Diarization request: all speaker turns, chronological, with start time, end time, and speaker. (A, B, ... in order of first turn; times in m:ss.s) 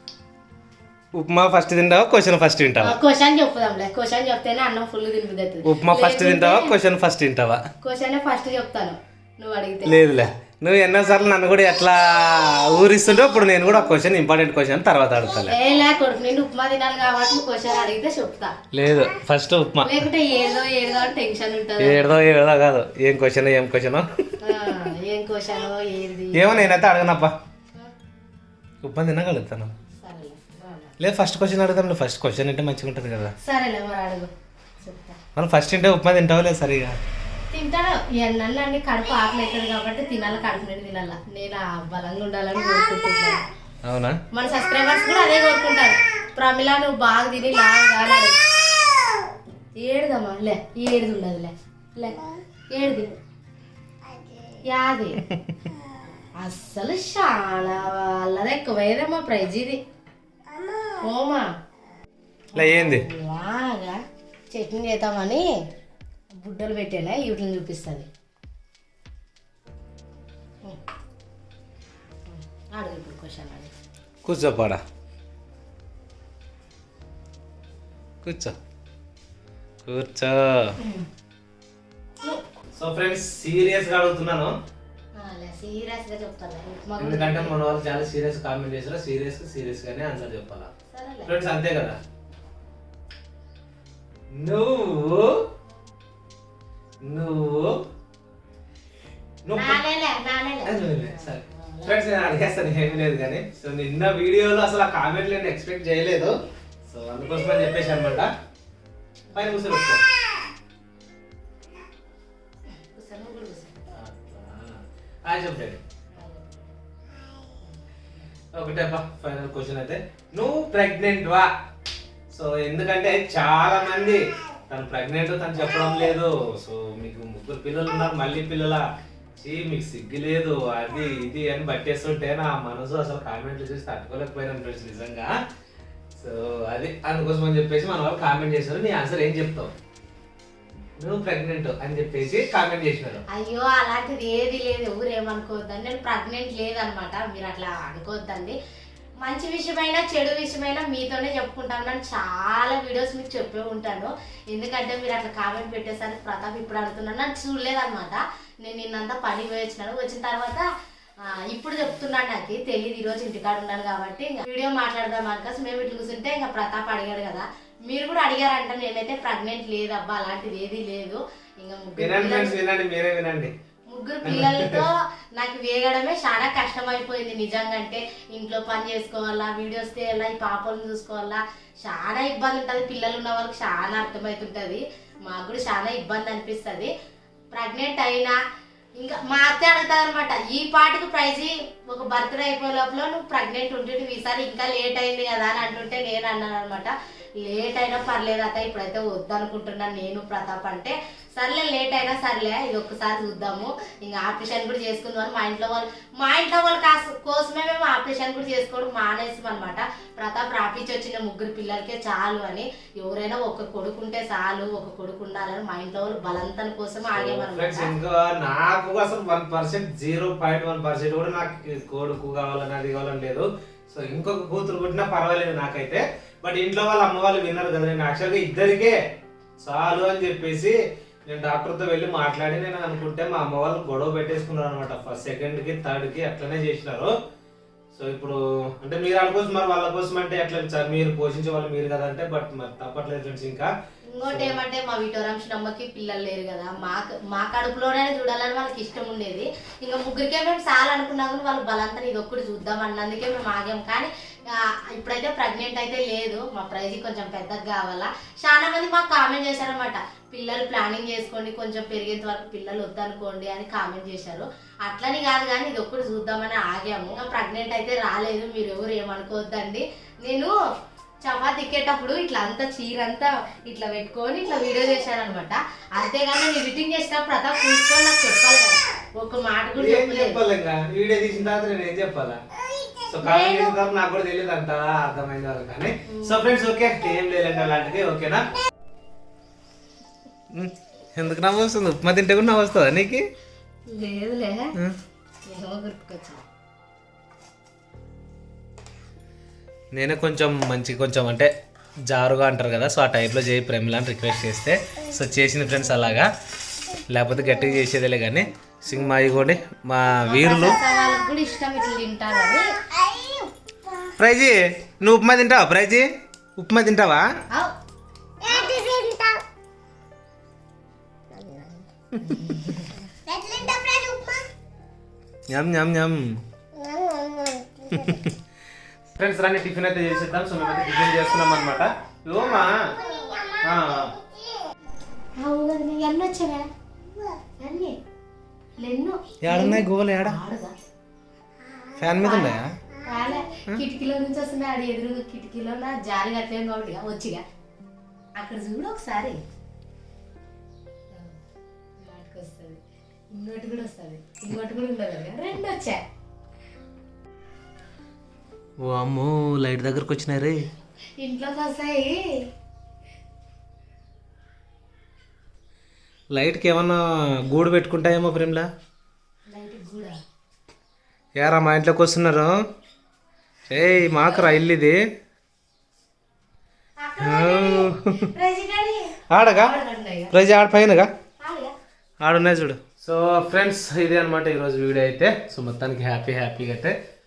0:01.2-0:03.0 A
0:02.8-0:06.7 B
0:05.6-0:07.6 A
0:07.8-0:10.0 B
0:09.8-0:15.6 A
0:15.5-0:18.5 B
0:18.7-0:20.1 A
0:19.8-0:22.1 B
0:21.8-0:24.1 A
0:24.4-0:26.7 B
0:26.3-0:27.3 A
0:28.8-0:29.7 A
0:30.0-0:31.0 B
0:31.0-0:33.3 A
0:33.4-0:34.3 B
0:34.8-0:35.2 B
0:35.4-0:37.0 A
0:37.5-0:43.4 B
0:43.8-0:44.2 A
0:44.3-0:48.4 B
0:49.8-0:53.1 B
0:54.7-0:55.2 B
0:56.4-0:59.8 B
1:00.9-1:01.5 B
1:02.5-1:04.0 B
1:02.6-1:03.1 A
1:04.5-1:05.5 B
1:06.4-1:08.1 B
1:12.3-1:13.7 B
1:14.2-1:14.8 A
1:18.2-1:18.6 A
1:19.8-1:20.8 A
1:20.8-1:21.1 B
1:22.8-1:24.5 A
1:25.2-1:27.5 B
1:27.0-1:30.7 A
1:30.9-1:31.3 B
1:31.3-1:32.0 A
1:34.3-1:35.4 A
1:37.0-1:37.8 A
1:39.4-1:39.8 A
1:39.6-1:42.0 B
1:40.6-1:46.3 A
1:46.9-1:48.3 A
1:49.3-1:50.0 A
1:52.7-1:53.8 B
1:53.9-1:55.8 A
1:56.2-1:56.8 B
1:57.6-1:58.3 B
1:58.5-2:01.5 A
2:02.3-2:08.8 A
2:09.4-2:15.3 A
2:16.2-2:19.7 A
2:21.0-2:23.2 A
2:23.3-2:28.6 B
2:29.2-2:40.6 B
2:41.3-2:52.6 B
2:52.0-2:53.5 A
2:53.9-3:06.9 B
2:54.2-2:54.8 A
3:07.5-3:08.4 B
3:09.0-3:37.9 B
3:37.1-3:49.0 A
3:49.6-3:50.8 A
3:51.3-3:57.1 A
3:57.9-4:03.7 A
4:04.1-4:30.5 B
4:04.3-4:04.6 A
4:31.2-4:40.4 B
4:39.8-4:42.4 A
4:43.1-4:48.5 A
4:43.2-4:43.8 B
4:46.1-4:46.4 B
4:50.5-4:53.2 A
4:53.9-4:54.7 B
4:55.5-4:56.4 B
4:59.9-5:01.5 A
5:02.1-5:06.3 A
5:07.1-5:10.8 A
5:10.3-5:13.5 B
5:14.2-5:17.3 A
5:18.4-5:19.4 B
5:22.2-5:23.0 B
5:23.5-5:24.4 B
5:25.5-5:26.3 A
5:26.9-5:27.6 B
5:27.9-5:28.3 A
5:29.2-5:33.0 A
5:33.6-5:34.2 A
5:35.4-5:36.7 B
5:37.6-5:38.0 B
5:38.8-5:40.8 B
5:39.4-5:40.4 A
5:42.0-5:42.7 A
5:42.2-5:47.4 B
5:48.4-5:49.4 B
5:51.1-5:51.4 B
5:52.0-5:52.8 B
5:53.3-5:56.0 B
5:58.8-6:00.6 A
6:01.2-6:02.5 B
6:06.3-6:08.7 A
6:09.5-6:10.2 B
6:11.4-6:12.6 A
6:13.7-6:15.0 A
6:17.0-6:20.3 B
6:17.2-6:18.2 A
6:19.3-6:19.7 A
6:20.3-6:21.1 A
6:21.4-6:21.7 B
6:22.2-6:27.0 A